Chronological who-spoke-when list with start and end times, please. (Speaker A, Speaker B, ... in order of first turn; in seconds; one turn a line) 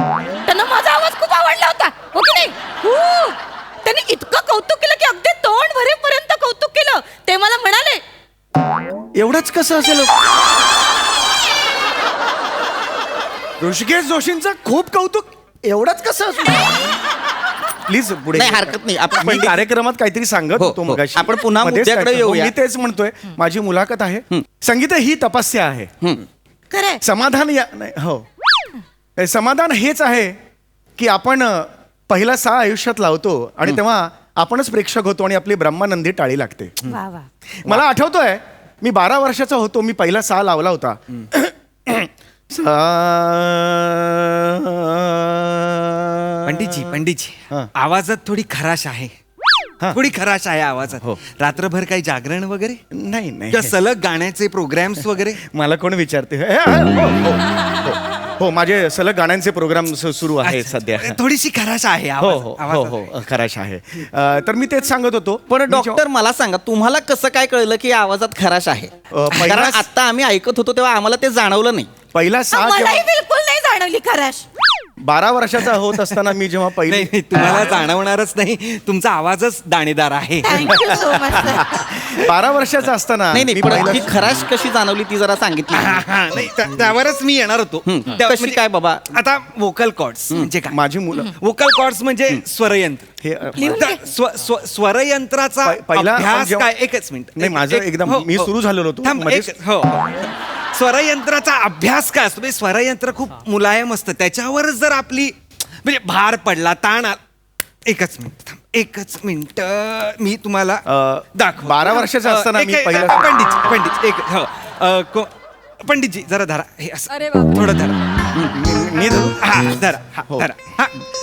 Speaker A: 0.5-8.0
Speaker B: 9.1-10.2
Speaker B: 13.6-16.6
Speaker B: 17.9-25.9
Speaker C: 18.4-19.6
Speaker C: 20.6-22.5
Speaker A: 26.7-27.0
Speaker B: 27.0-28.2
Speaker B: 29.2-30.4
Speaker B: 31.0-36.7
Speaker A: 36.9-37.3
Speaker B: 37.6-46.9
Speaker D: 46.4-49.1
Speaker D: 49.9-52.8
Speaker B: 52.9-53.8
Speaker D: 53.5-55.4
Speaker B: 55.4-61.2
Speaker D: 60.4-63.1
Speaker B: 62.2-66.0
Speaker C: 65.5-71.9
Speaker B: 69.1-69.8
Speaker B: 72.1-73.0
Speaker A: 72.5-74.5
Speaker B: 75.0-77.1
Speaker D: 76.9-82.3
Speaker A: 80.4-81.7
Speaker B: 81.6-84.1
Speaker C: 83.3-86.0
Speaker D: 85.7-88.6
Speaker C: 87.8-89.0
Speaker D: 89.1-93.0
Speaker B: 90.7-91.3
Speaker B: 93.2-93.8
Speaker A: 93.6-94.0
Speaker D: 93.6-98.5
Speaker B: 95.6-96.7
Speaker B: 97.3-99.5
Speaker D: 99.0-107.2
Speaker D: 107.8-110.8
Speaker B: 110.8-113.3
Speaker D: 111.3-118.0
Speaker B: 118.3-119.4
Speaker D: 119.4-121.0